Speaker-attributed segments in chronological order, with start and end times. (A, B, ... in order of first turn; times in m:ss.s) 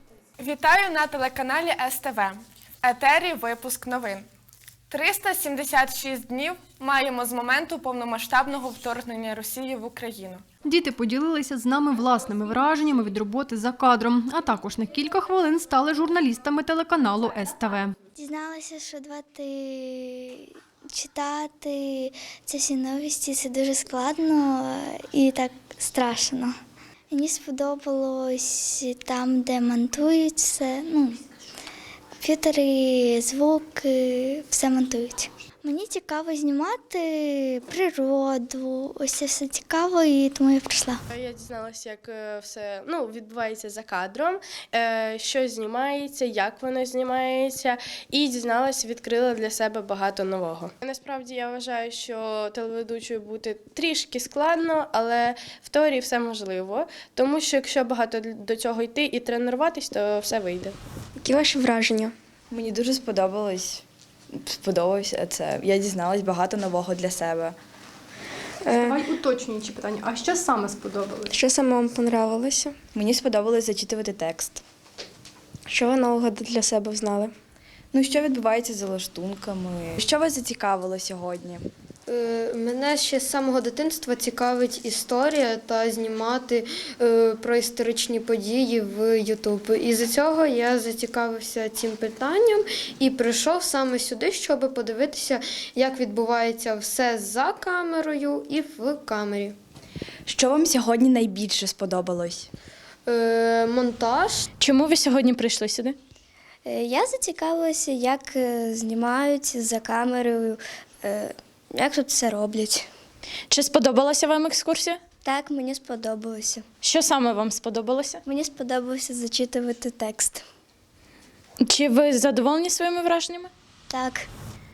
0:00.4-0:04.2 A
0:04.9-0:10.4 A
0:10.6-0:17.9 B
0:18.2-0:26.5 C
0:27.1-0:31.2 C
0:32.2-0:41.0 C
0:41.1-1:00.7 D
1:01.2-1:02.1 E
1:02.5-1:03.8 F
1:04.4-1:07.6 F
1:08.6-1:09.0 E
1:08.7-1:11.3 B
1:11.3-1:12.7 E
1:12.9-1:14.6 F
1:15.7-1:17.3 E
1:17.9-1:21.6 F
1:22.1-1:39.6 G
1:40.2-1:42.5 F
1:43.0-1:44.4 G
1:44.6-1:46.0 H
1:46.6-1:52.9 C
1:53.5-1:55.0 H
1:55.2-1:56.6 C
1:56.8-1:58.2 H
1:58.2-2:00.4 C
2:01.6-2:03.5 H
2:03.9-2:04.3 C